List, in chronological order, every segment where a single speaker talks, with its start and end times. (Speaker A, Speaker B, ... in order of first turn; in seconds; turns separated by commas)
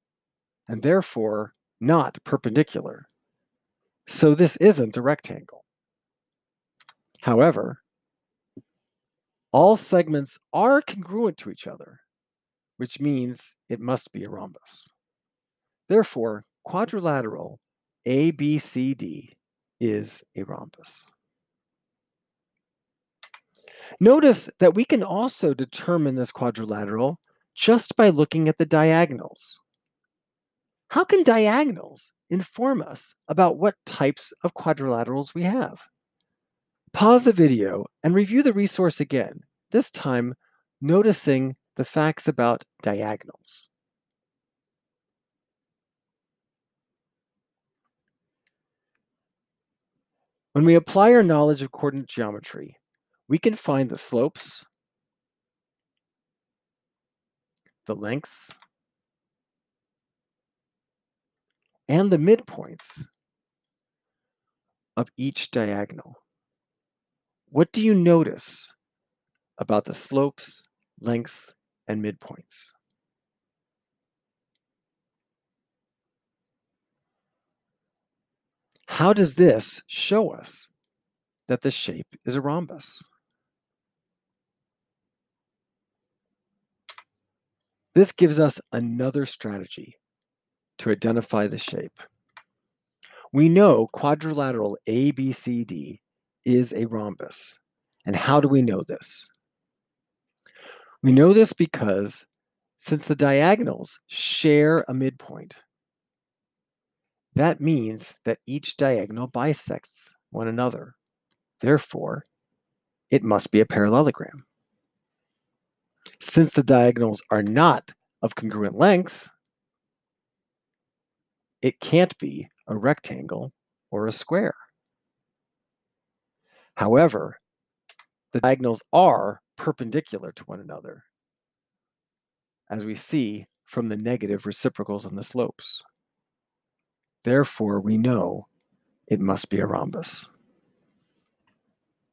Speaker A: 0.7-3.1, Speaker A: 4.1-5.7, Speaker A: 7.2-7.8, Speaker A: 9.5-12.0, Speaker A: 12.8-14.9, Speaker A: 15.9-21.1, Speaker A: 24.0-29.6, Speaker A: 30.9-35.9, Speaker A: 36.9-43.7, Speaker A: 50.5-54.7, Speaker A: 57.9-58.6, Speaker A: 61.9-63.1, Speaker A: 65.0-66.2, Speaker A: 67.5-68.8, Speaker A: 69.6-72.8, Speaker A: 78.9-80.7, Speaker A: 81.5-83.1, Speaker A: 87.9-90.0, Speaker A: 90.8-92.0, Speaker A: 93.3-99.3, Speaker A: 101.0-102.3, Speaker A: 102.8-105.6, Speaker A: 107.3-111.0, Speaker A: 111.6-112.3, Speaker A: 113.1-114.5, Speaker A: 116.2-119.3, Speaker A: 121.6-124.6, Speaker A: 126.8-127.4, Speaker A: 128.3-131.1, Speaker A: 132.7-135.9, Speaker A: 137.2-138.5, Speaker A: 139.1-140.3